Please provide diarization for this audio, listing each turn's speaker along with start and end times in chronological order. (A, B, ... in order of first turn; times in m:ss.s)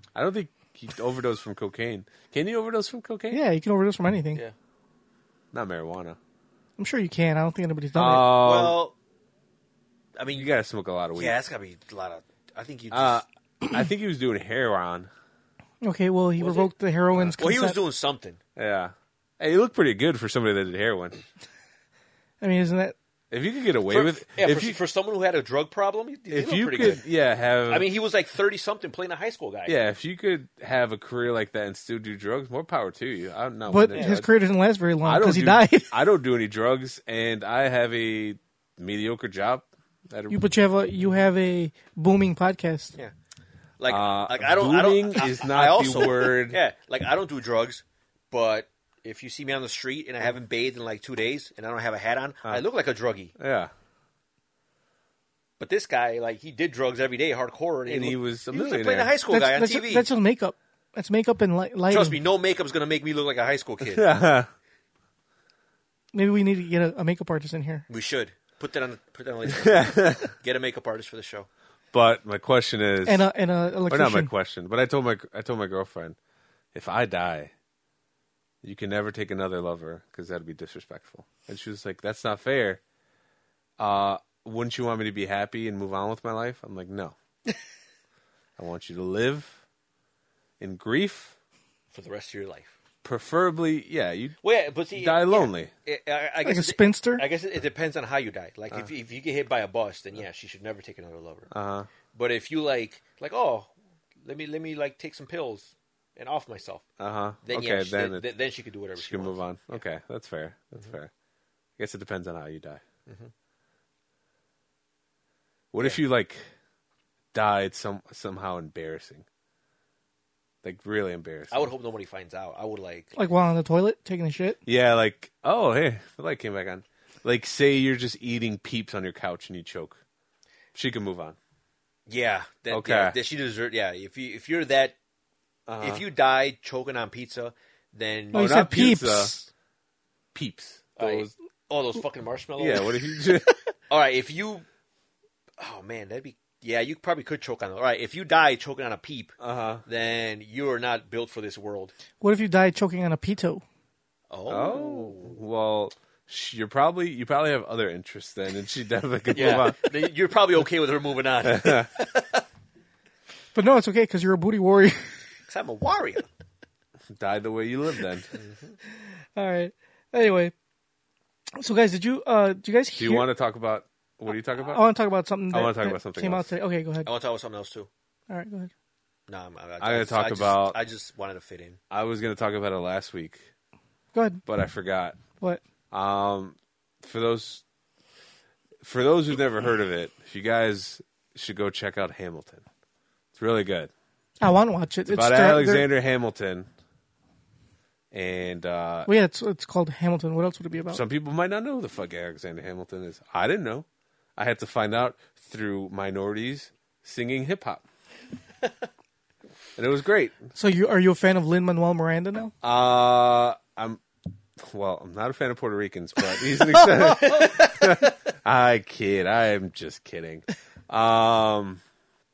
0:00.1-0:03.4 A
0:03.3-0:04.4 B
0:05.5-0:06.2 A
0:06.8-0:08.3 B
0:08.0-0:08.8 A
0:08.3-0:09.0 C
0:10.2-0:10.5 C
0:10.3-0:11.4 A
0:11.1-0:13.2 C
0:12.9-0:15.1 A
0:15.8-0:17.8 B
0:16.4-0:16.7 C
0:17.4-0:18.4 C
0:18.6-0:21.2 A
0:22.4-0:23.0 B
0:23.3-0:24.8 A
0:23.9-0:27.0 C
0:26.3-0:27.9 A
0:27.7-0:29.8 C
0:29.7-0:34.3 A
0:33.7-0:35.9 B
0:34.0-0:34.2 C
0:35.0-0:40.5 A
0:40.3-0:43.0 B
0:43.8-0:53.3 C
0:43.9-0:46.6 A
0:53.4-0:53.7 A
0:55.6-1:00.1 C
0:57.9-0:59.1 A
0:59.3-1:02.2 B
1:01.9-1:04.1 C
1:03.8-1:04.5 A
1:06.1-1:07.8 B
1:07.9-1:11.5 C
1:09.5-1:10.3 A
1:11.9-1:13.3 A
1:13.0-1:14.3 B
1:13.9-1:16.2 A
1:16.7-1:17.5 A
1:18.6-1:22.8 A
1:23.8-1:27.1 A
1:28.6-1:29.6 A
1:30.6-1:31.4 A
1:31.9-1:32.7 C
1:33.0-1:34.4 A
1:34.4-1:41.5 C
1:34.9-1:35.7 A
1:36.4-1:37.2 B
1:41.5-1:41.9 A
1:42.1-1:43.7 C
1:44.2-1:46.9 C
1:47.0-1:48.3 A
1:47.4-1:49.8 C
1:49.0-1:51.1 A
1:51.8-1:52.8 A
1:55.7-1:56.4 A
1:57.3-1:59.2 A
2:00.6-2:01.7 A
2:01.5-2:03.2 C
2:03.2-2:04.6 B
2:04.7-2:10.0 A
2:10.8-2:11.4 A
2:12.1-2:15.0 C
2:12.7-2:13.2 A
2:15.7-2:16.0 A
2:15.8-2:18.6 C
2:18.3-2:19.3 A
2:18.3-2:19.5 B
2:20.3-2:21.3 A
2:21.0-2:24.6 C
2:22.6-2:23.6 A
2:25.6-2:29.4 C
2:29.4-2:29.8 A
2:29.9-2:31.9 C
2:32.2-2:33.6 B
2:34.3-2:35.4 C
2:34.5-2:39.9 A
2:39.3-2:42.4 C
2:41.4-2:41.9 A
2:43.6-2:45.2 B
2:45.5-2:46.3 C
2:47.1-2:48.3 A
2:48.3-2:48.8 C
2:49.4-2:50.5 B
2:51.6-2:53.3 B
2:53.0-2:54.8 A
2:54.7-2:57.1 B
2:55.5-2:56.5 A
2:57.0-2:57.9 C
2:58.3-2:58.7 B
2:59.3-3:01.8 C
2:59.8-3:00.8 A
3:01.9-3:03.4 A
3:04.1-3:04.4 B
3:04.4-3:05.2 A
3:05.9-3:07.6 A
3:08.8-3:12.6 A
3:13.4-3:13.9 A
3:14.4-3:15.9 B
3:15.1-3:16.7 A
3:18.1-3:19.1 A
3:19.1-3:21.0 B
3:20.9-3:27.8 A
3:29.8-3:30.4 A
3:30.6-3:32.5 B
3:32.6-3:34.0 A
3:34.6-3:41.8 A
3:36.8-3:38.0 C